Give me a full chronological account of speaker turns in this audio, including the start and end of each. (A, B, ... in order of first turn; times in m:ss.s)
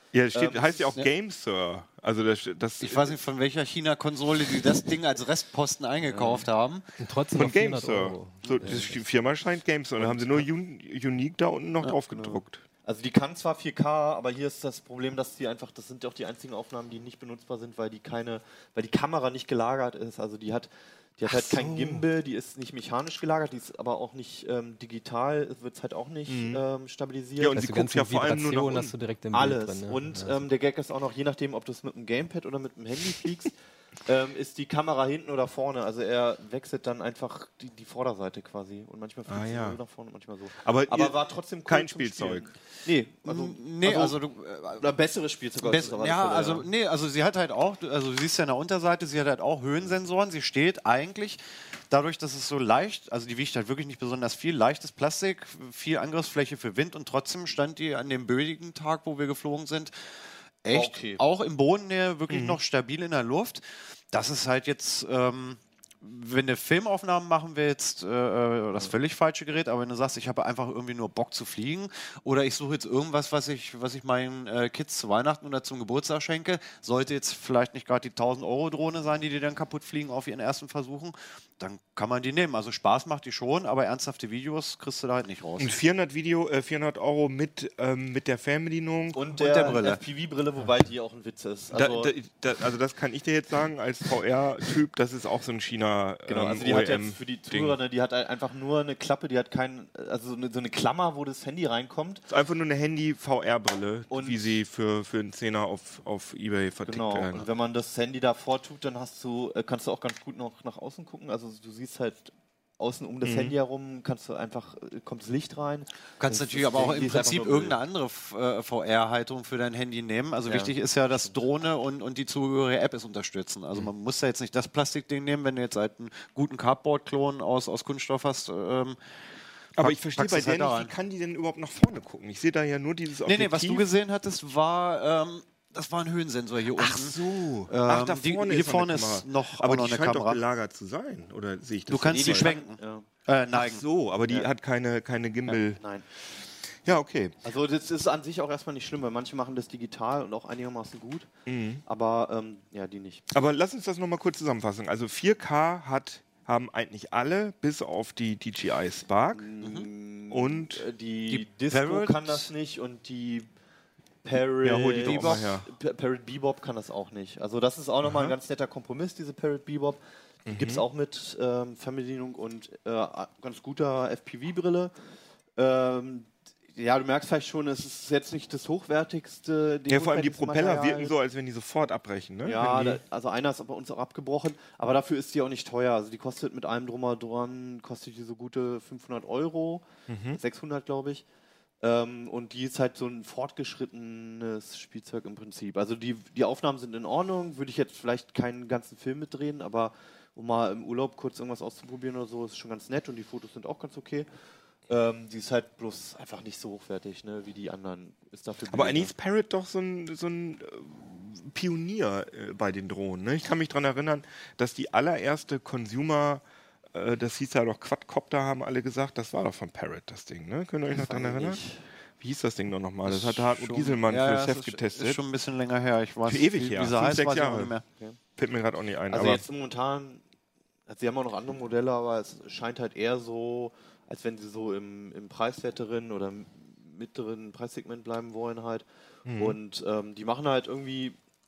0:00.1-0:03.2 A
0:00.3-0:00.9 B
0:02.8-0:06.8 C
0:06.0-0:06.5 B
0:07.0-0:08.8 D
0:07.3-0:12.6 A
0:08.5-0:09.0 B
0:10.0-0:10.4 B
0:12.1-0:27.6 B
0:21.2-0:22.0 A
0:26.3-0:26.6 A
0:27.4-0:28.9 A
0:27.5-0:30.4 D
0:29.3-0:44.2 B
0:39.3-0:39.8 A
0:40.6-0:42.5 A
0:43.2-0:44.9 C
0:44.8-0:46.7 B
0:45.6-0:51.4 C
0:51.9-0:59.9 C
1:00.6-1:25.7 C
1:00.7-1:01.2 B
1:02.3-1:02.6 A
1:25.6-1:29.2 A
1:29.1-1:32.1 B
1:29.4-1:30.0 C
1:31.7-1:37.8 A
1:36.3-1:42.2 B
1:42.3-1:47.5 A
1:44.1-1:44.4 B
1:46.8-1:57.8 B
1:53.2-1:53.5 A
1:56.2-2:09.0 C
2:00.5-2:01.4 B
2:09.8-2:13.8 A
2:09.8-2:10.9 C
2:13.2-2:17.2 C
2:16.8-2:22.5 A
2:17.7-2:20.4 C
2:21.9-2:23.8 C
2:22.1-2:23.1 B
2:23.5-2:25.8 A
2:26.8-2:27.3 A
2:27.4-2:31.3 B
2:31.4-2:31.8 A
2:31.8-2:33.2 B
2:33.3-2:39.5 A
2:39.3-2:43.5 B
2:39.6-2:39.9 C
2:40.3-2:40.9 A
2:41.3-2:42.3 C
2:44.2-2:54.9 B
2:44.6-2:45.7 A
2:48.0-2:48.3 A
2:50.4-2:50.8 A
2:55.6-3:01.1 B
2:59.9-3:03.0 A
3:02.4-3:09.8 B
3:10.1-3:10.4 A
3:10.4-3:11.2 B
3:11.8-3:24.3 B
3:24.9-3:29.1 B
3:28.7-3:36.4 A
3:36.9-3:41.6 A
3:40.9-3:41.9 B
3:42.2-3:45.2 A
3:43.0-3:47.8 C
3:46.2-3:47.7 A
3:48.4-3:49.4 A
3:49.1-3:50.2 B
3:50.9-4:01.2 B
3:59.2-3:59.6 A